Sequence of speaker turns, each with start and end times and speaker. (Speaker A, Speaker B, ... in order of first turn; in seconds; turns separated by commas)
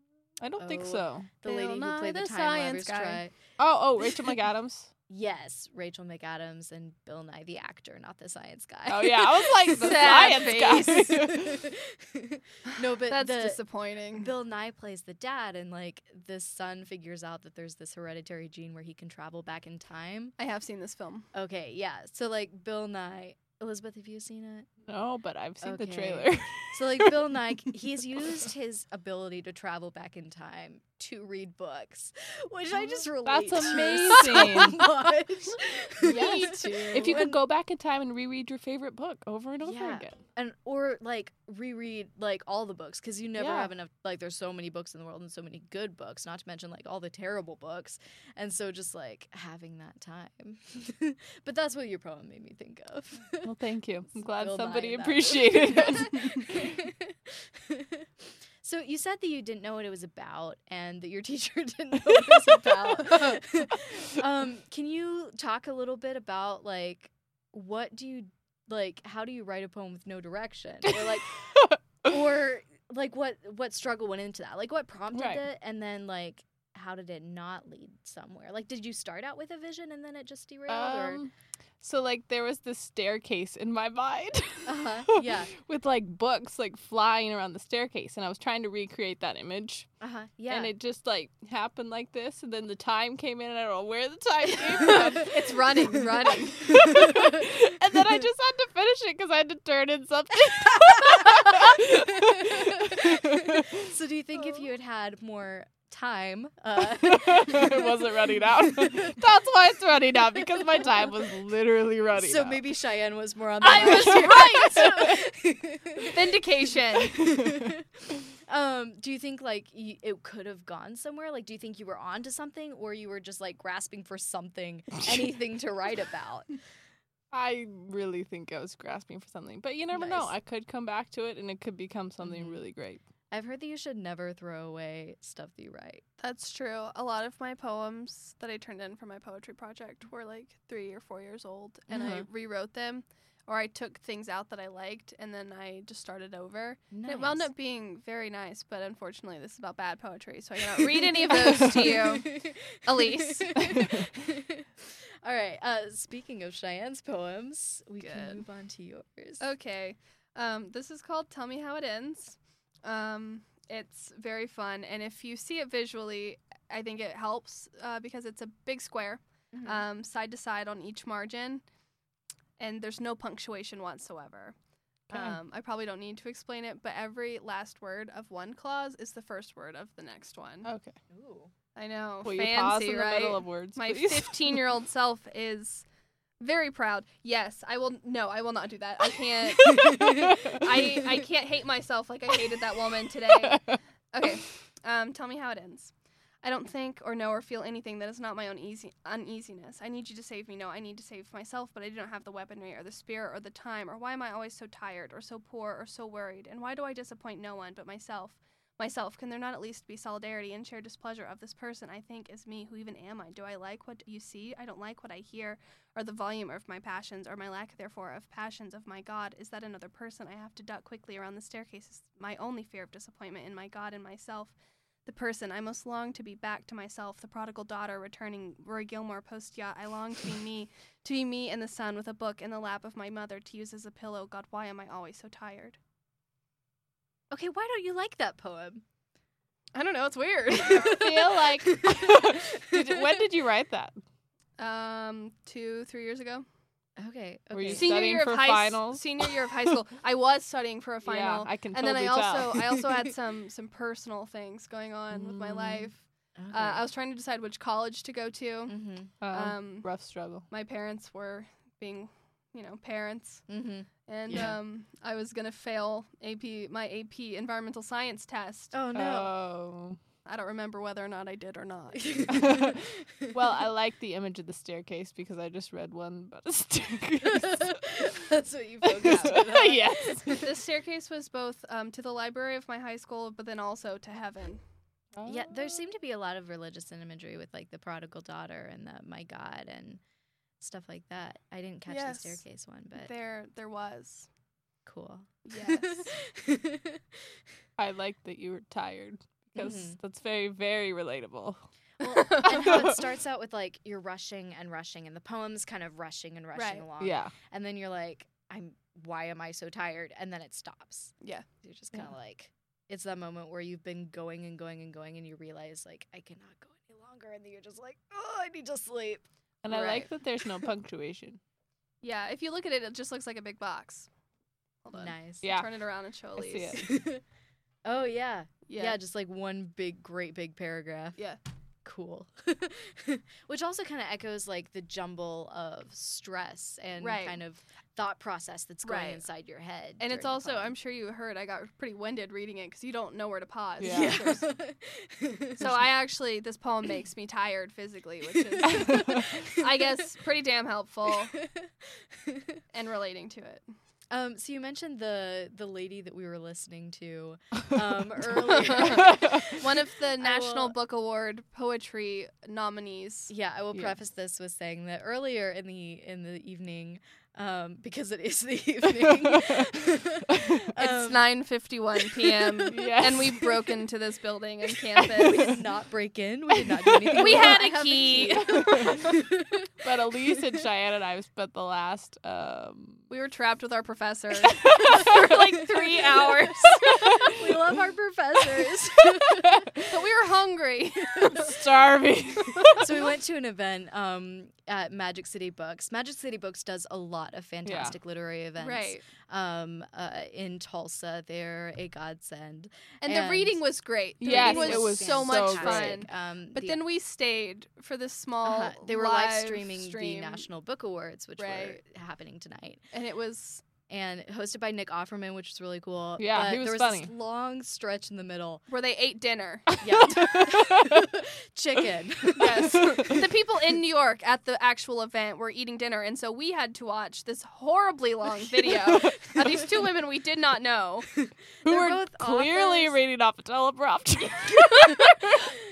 Speaker A: 0.4-1.3, Speaker B: 0.6-3.4, Speaker C: 1.4-3.2, Speaker A: 3.6-4.9, Speaker B: 5.1-20.3, Speaker A: 8.8-11.7, Speaker C: 9.8-11.1, Speaker C: 12.7-14.3, Speaker C: 20.4-21.3, Speaker B: 21.3-24.7, Speaker A: 24.9-27.4, Speaker B: 25.6-37.4, Speaker A: 32.8-34.8, Speaker A: 36.0-40.2, Speaker C: 36.1-36.6, Speaker B: 39.6-53.5, Speaker A: 43.4-43.7, Speaker A: 53.4-56.6, Speaker B: 54.2-71.4, Speaker B: 72.0-81.2, Speaker A: 75.1-75.4, Speaker A: 80.7-89.9, Speaker B: 84.6-85.5, Speaker B: 90.0-90.7, Speaker A: 90.5-95.5, Speaker C: 94.8-96.9, Speaker A: 96.2-103.9, Speaker B: 96.9-97.4, Speaker B: 100.9-109.2, Speaker A: 106.8-112.6, Speaker B: 112.1-116.2, Speaker C: 113.6-115.0, Speaker A: 113.7-115.2, Speaker C: 116.0-117.2, Speaker B: 117.1-117.8, Speaker A: 117.1-117.7, Speaker B: 118.4-126.6, Speaker A: 127.3-133.0, Speaker B: 129.9-130.3, Speaker B: 132.2-132.6, Speaker B: 133.3-136.0, Speaker C: 136.2-153.7, Speaker B: 141.9-142.3, Speaker B: 146.9-147.5, Speaker B: 151.5-159.4, Speaker A: 153.6-154.1, Speaker C: 158.0-158.4, Speaker C: 159.4-171.6, Speaker B: 169.5-169.8, Speaker C: 172.6-174.6, Speaker C: 175.1-180.7, Speaker B: 175.1-175.4, Speaker A: 180.6-181.0, Speaker B: 181.1-181.5, Speaker C: 181.8-185.8, Speaker A: 182.2-184.6, Speaker C: 186.4-235.8, Speaker A: 189.6-190.9, Speaker A: 193.3-193.8, Speaker B: 237.3-238.8, Speaker C: 239.7-241.3, Speaker B: 240.5-243.2, Speaker A: 240.9-244.0, Speaker C: 244.6-246.4, Speaker B: 247.0-248.0, Speaker A: 247.5-249.3, Speaker C: 247.7-258.8, Speaker A: 251.0-252.9, Speaker A: 255.1-255.9, Speaker B: 256.4-256.8, Speaker B: 258.7-259.1, Speaker A: 259.2-260.4, Speaker C: 259.3-259.9, Speaker C: 260.5-263.4, Speaker B: 263.5-264.6, Speaker C: 264.1-268.7, Speaker B: 268.7-269.3, Speaker A: 268.9-270.0, Speaker C: 270.2-272.4, Speaker B: 271.9-273.4, Speaker A: 272.3-278.1, Speaker B: 277.2-280.5, Speaker A: 278.8-280.4, Speaker C: 280.4-284.6, Speaker A: 285.1-285.8, Speaker B: 285.2-290.0, Speaker B: 290.6-293.1, Speaker C: 291.9-292.4, Speaker C: 292.9-294.3, Speaker B: 294.9-297.4, Speaker C: 295.4-296.1, Speaker A: 297.8-303.0, Speaker B: 299.6-300.0, Speaker B: 302.0-319.2, Speaker C: 306.5-306.9, Speaker A: 307.0-307.3, Speaker C: 311.2-311.4, Speaker A: 319.6-321.4, Speaker C: 319.7-320.1, Speaker C: 322.0-324.1, Speaker C: 324.8-326.8, Speaker B: 324.9-325.5, Speaker A: 325.4-325.7, Speaker A: 326.3-326.9, Speaker B: 326.7-327.2, Speaker B: 327.8-331.2, Speaker C: 328.7-329.0, Speaker B: 331.8-340.7, Speaker C: 337.0-337.4, Speaker C: 338.8-339.2, Speaker C: 340.0-344.5, Speaker A: 343.8-344.1, Speaker B: 343.8-345.7, Speaker C: 345.6-351.4, Speaker B: 348.4-349.7, Speaker A: 348.7-349.3, Speaker B: 351.4-352.6, Speaker C: 352.7-353.6, Speaker B: 354.1-360.7, Speaker C: 358.4-363.3, Speaker A: 359.0-359.4, Speaker B: 363.3-371.4, Speaker A: 369.2-369.6, Speaker A: 370.3-370.6, Speaker C: 370.8-375.6, Speaker B: 372.0-372.7, Speaker A: 372.7-373.6, Speaker B: 375.1-379.7, Speaker A: 376.6-377.6, Speaker C: 377.1-379.0, Speaker A: 378.3-379.2, Speaker A: 379.8-383.0, Speaker C: 383.1-387.1, Speaker A: 384.5-385.1, Speaker B: 386.6-389.7, Speaker A: 386.9-387.5, Speaker A: 389.1-389.8, Speaker C: 389.9-391.6, Speaker B: 391.2-391.5, Speaker A: 391.3-392.9, Speaker B: 392.7-403.6, Speaker A: 397.6-398.0, Speaker C: 398.6-399.0, Speaker C: 403.0-410.5, Speaker B: 404.2-406.8, Speaker A: 404.2-406.0, Speaker B: 408.4-412.9, Speaker C: 411.4-411.8, Speaker C: 412.9-413.6, Speaker B: 413.9-418.6, Speaker A: 416.2-417.1, Speaker C: 418.7-419.8, Speaker B: 419.8-423.1, Speaker A: 419.8-421.1, Speaker C: 422.4-431.1, Speaker A: 422.8-423.1, Speaker B: 431.2-433.0, Speaker A: 431.6-435.5